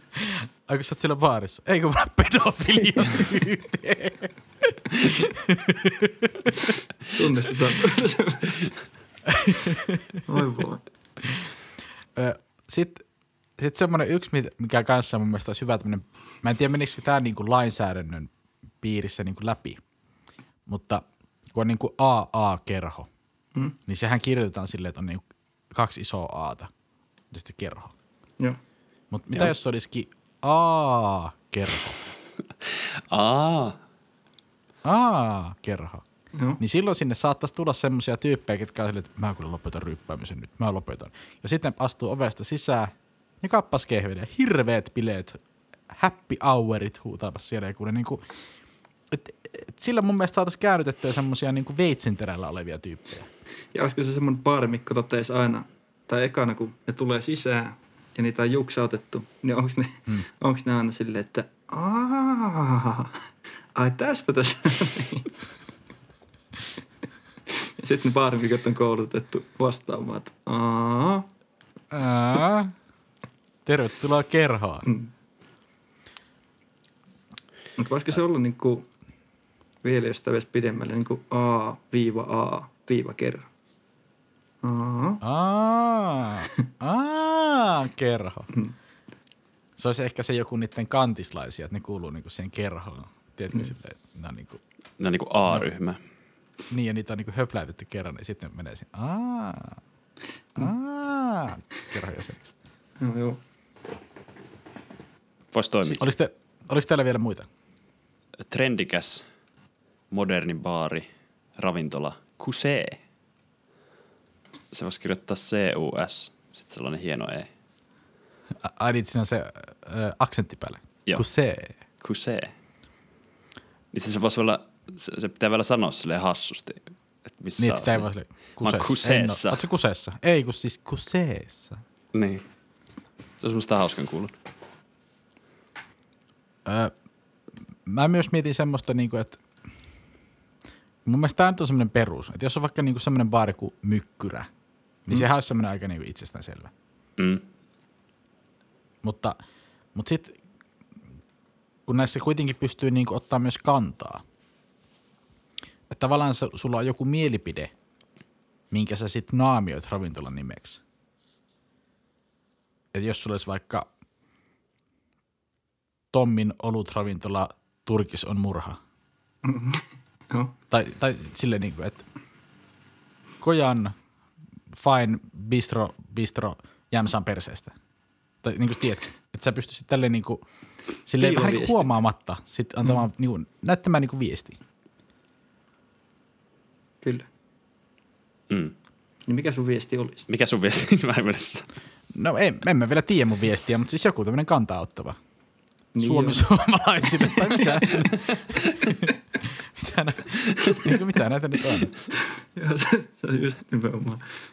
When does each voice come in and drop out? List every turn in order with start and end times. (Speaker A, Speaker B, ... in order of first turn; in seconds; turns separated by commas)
Speaker A: 0.2-6.5, Speaker B: 7.1-8.7, Speaker A: 9.3-10.0, Speaker B: 10.3-10.8, Speaker A: 12.2-13.1, Speaker A: 13.6-18.3, Speaker A: 18.8-19.8, Speaker A: 20.7-23.1, Speaker A: 23.9-26.7, Speaker A: 27.3-27.9, Speaker A: 29.1-32.0, Speaker C: 33.1-33.8, Speaker A: 34.9-36.0, Speaker B: 36.3-36.6, Speaker A: 36.6-48.2, Speaker A: 49.1-53.3, Speaker B: 53.7-63.2, Speaker B: 63.8-65.3, Speaker B: 67.8-71.3, Speaker A: 71.9-72.7, Speaker A: 73.7-74.9, Speaker B: 74.9-75.1, Speaker B: 77.8-78.8, Speaker B: 79.8-83.5, Speaker B: 84.6-85.2, Speaker A: 85.2-88.5, Speaker A: 89.8-94.6, Speaker C: 95.0-96.0, Speaker A: 96.7-99.8, Speaker A: 100.6-102.5, Speaker B: 103.0-103.4, Speaker C: 105.5-106.1, Speaker A: 106.0-107.5, Speaker C: 108.5-109.2, Speaker C: 110.1-111.1, Speaker C: 111.6-113.0, Speaker C: 114.7-117.5, Speaker A: 118.6-121.8, Speaker C: 122.0-122.5, Speaker C: 123.9-129.6, Speaker A: 127.6-131.8, Speaker C: 132.1-132.4, Speaker C: 133.4-134.3, Speaker A: 136.7-136.9, Speaker A: 137.8-139.4, Speaker A: 141.1-144.5, Speaker A: 145.1-146.7, Speaker C: 147.2-147.4, Speaker A: 149.0-149.4, Speaker A: 149.9-150.4, Speaker A: 151.9-154.2, Speaker A: 155.9-157.7, Speaker A: 158.7-160.8, Speaker A: 162.9-163.9, Speaker A: 166.1-168.8, Speaker B: 169.4-170.5, Speaker A: 170.7-172.0, Speaker A: 173.4-173.9, Speaker A: 174.7-177.7, Speaker A: 178.4-180.4, Speaker A: 181.1-184.6, Speaker B: 181.2-182.0, Speaker B: 189.3-190.3, Speaker C: 190.3-191.7, Speaker A: 192.1-195.2, Speaker B: 195.9-196.5, Speaker A: 196.0-198.4, Speaker B: 197.2-198.2, Speaker A: 199.4-202.0, Speaker B: 202.6-204.3